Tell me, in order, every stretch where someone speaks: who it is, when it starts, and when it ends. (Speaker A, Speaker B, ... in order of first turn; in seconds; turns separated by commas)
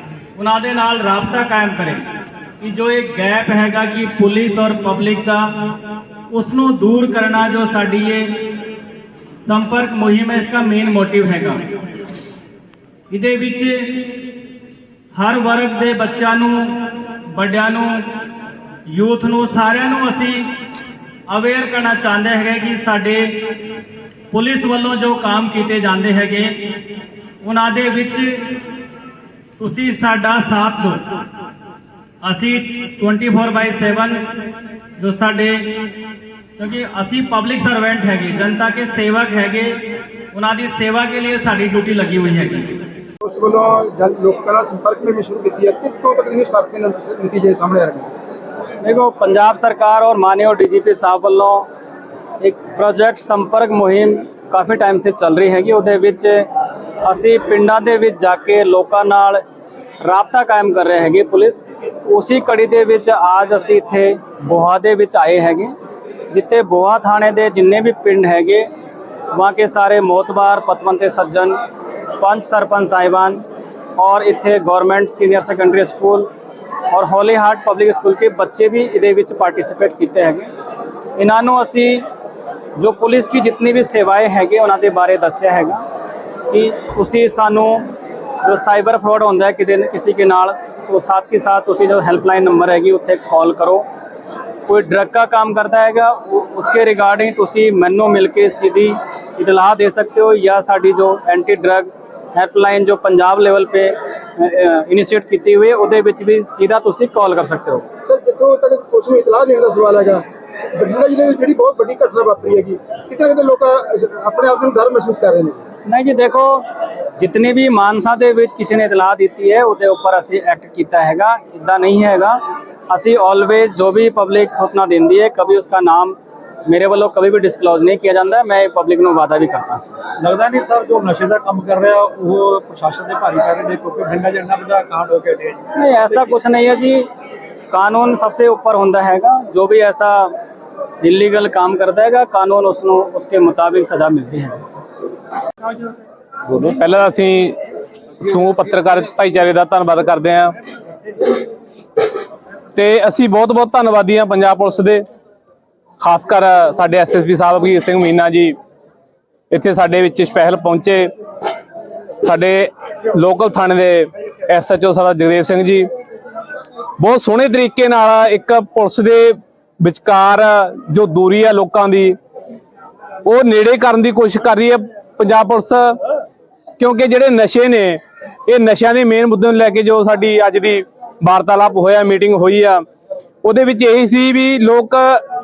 Speaker A: 0.3-2.0, Speaker A: 2.6-5.4, Speaker A: 6.3-8.2, Speaker A: 9.4-11.6, Speaker A: 13.1-14.0, Speaker A: 15.1-16.8, Speaker A: 17.3-18.0, Speaker A: 18.9-20.4, Speaker A: 21.3-23.3, Speaker A: 24.3-26.5, Speaker A: 27.4-28.4, Speaker A: 29.6-31.0, Speaker A: 32.2-34.1, Speaker A: 35.0-35.6, Speaker A: 36.6-39.7, Speaker A: 40.3-42.8, Speaker B: 43.2-48.1, Speaker A: 48.8-51.6, Speaker A: 52.4-56.4, Speaker A: 57.0-59.4, Speaker A: 60.0-65.7, Speaker A: 66.3-68.6, Speaker A: 69.3-71.5, Speaker A: 72.2-73.4, Speaker A: 74.0-76.3, Speaker A: 76.9-80.5, Speaker A: 81.2-82.0, Speaker A: 82.8-85.8, Speaker A: 86.5-87.9, Speaker A: 88.4-93.8, Speaker A: 94.7-107.8, Speaker B: 108.0-115.6, Speaker A: 115.8-116.6, Speaker A: 117.2-126.2, Speaker A: 126.7-130.0, Speaker C: 130.2-135.6, Speaker A: 135.7-137.0, Speaker A: 137.7-140.3, Speaker A: 141.0-144.6, Speaker D: 146.5-147.6, Speaker D: 148.2-150.5, Speaker D: 152.7-155.0, Speaker D: 156.0-158.5, Speaker D: 159.5-161.1, Speaker D: 162.2-165.8, Speaker D: 167.0-172.2, Speaker D: 173.2-175.9, Speaker D: 176.8-182.8, Speaker D: 183.4-185.2